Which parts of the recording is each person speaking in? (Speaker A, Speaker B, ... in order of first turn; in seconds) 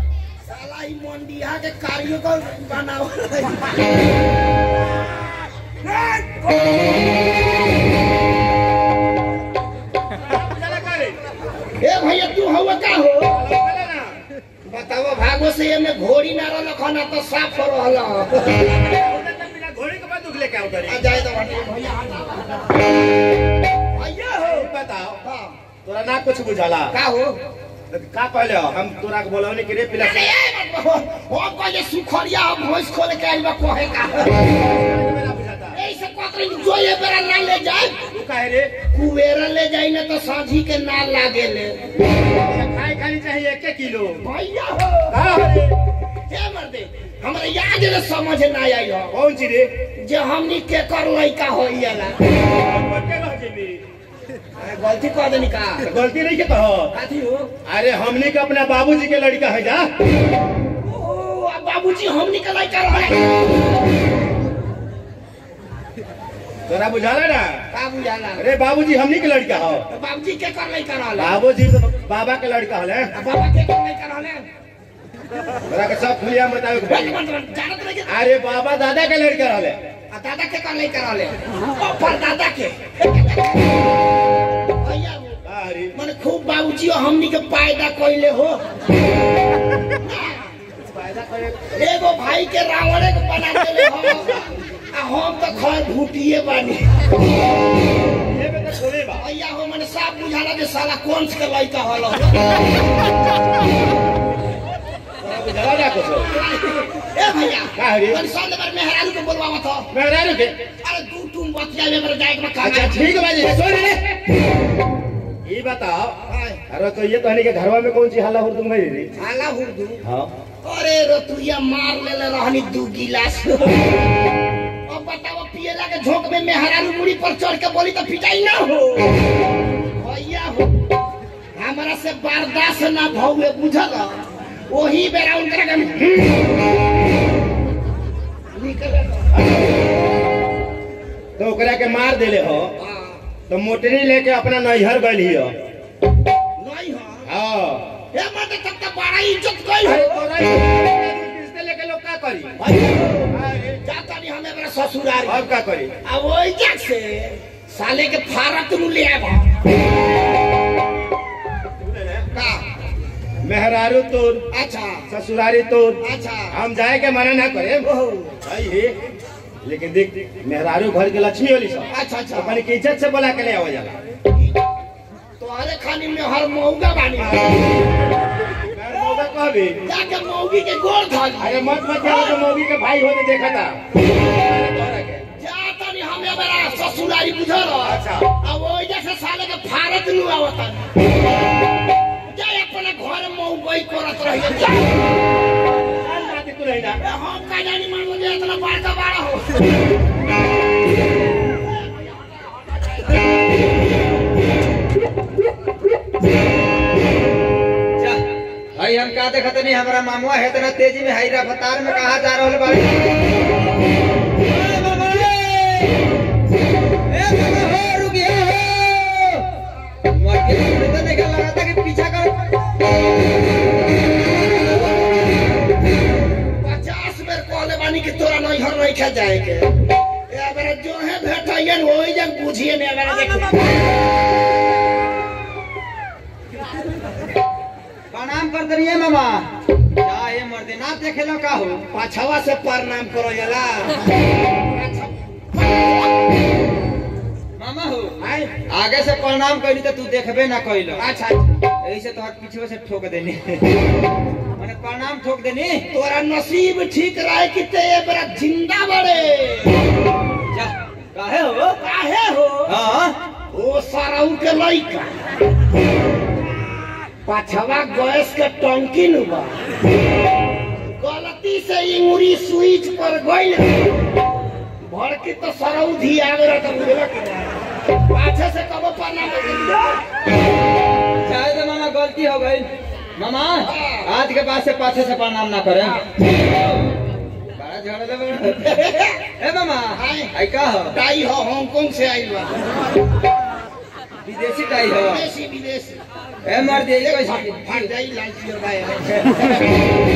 Speaker A: 0.5-3.8, 11.8-13.4, 14.7-18.7, 20.9-22.9, 24.0-24.6, 25.2-25.6, 26.9-27.4, 30.0-34.3, 35.7-38.0, 38.9-41.8, 44.2-45.2, 46.3-49.1, 50.0-52.2, 54.6-56.0, 56.9-57.5, 60.8-63.4, 67.7-68.5, 69.9-71.4, 73.2-74.4, 76.9-78.1, 80.1-83.5, 84.8-85.4, 85.9-88.6, 90.0-90.4, 91.7-94.4, 94.9-96.9, 99.2-102.5, 106.3-109.9, 110.8-113.4, 116.3-116.6, 119.2-120.0, 120.6-123.9, 124.9-129.2, 129.9-130.8, 131.6-134.2, 134.7-136.5, 138.5-139.3, 142.8-143.2, 146.6-147.3, 148.1-150.3, 152.8-153.0, 153.8-155.4, 156.0-159.5, 162.3-162.6, 164.5-165.1, 166.0-166.6, 167.8-168.3, 171.9-172.6, 175.4-177.5, 179.8-182.4, 185.4-190.9, 192.3-194.9, 197.0-199.7, 201.9-202.9, 226.6-229.7, 230.3-233.5, 241.9-244.0, 244.6-245.2, 248.2-248.5, 251.0-251.5, 255.9-259.8, 261.8-262.8, 263.5-265.1, 267.2-269.6, 271.0-273.9, 274.8-280.0, 283.6-284.1, 288.6-289.2, 289.9-290.3, 290.9-292.6, 295.0-296.0, 297.0-299.4
Speaker B: 10.2-11.2, 13.3-14.2, 18.7-21.1, 24.0-25.2, 25.9-26.9, 27.9-30.3, 34.7-35.8, 38.1-38.7, 42.4-44.2, 45.1-45.7, 49.1-49.8, 52.5-53.8, 55.9-56.9, 57.6-59.9, 66.7-67.6, 68.4-69.8, 71.2-73.1, 75.7-77.2, 78.1-79.8, 85.5-86.0, 90.9-91.7, 98.3-99.2, 105.2-106.3, 107.8-108.2, 109.9-110.6, 112.6-114.2, 115.5-116.2, 116.7-119.1, 120.0-120.3, 141.4-142.7, 143.5-145.5, 147.3-147.9, 149.8-153.8, 155.2-155.9, 161.8-162.3, 163.4-164.4, 165.1-166.0, 166.5-167.9, 168.4-168.9, 169.6-174.0, 178.7-179.8, 181.4-185.3, 187.8-188.3, 196.0-197.0
Speaker C: 208.0-208.2, 208.8-213.1, 214.4-216.0, 217.1-219.5, 220.1-222.6, 238.1-239.5, 240.0-241.8, 247.6-248.2, 248.7-251.0, 251.8-253.7, 254.6-255.9, 260.5-261.8, 262.7-263.1, 281.2-286.0, 287.6-288.8, 289.4-290.9, 294.3-295.2, 296.4-297.9, 299.1-299.6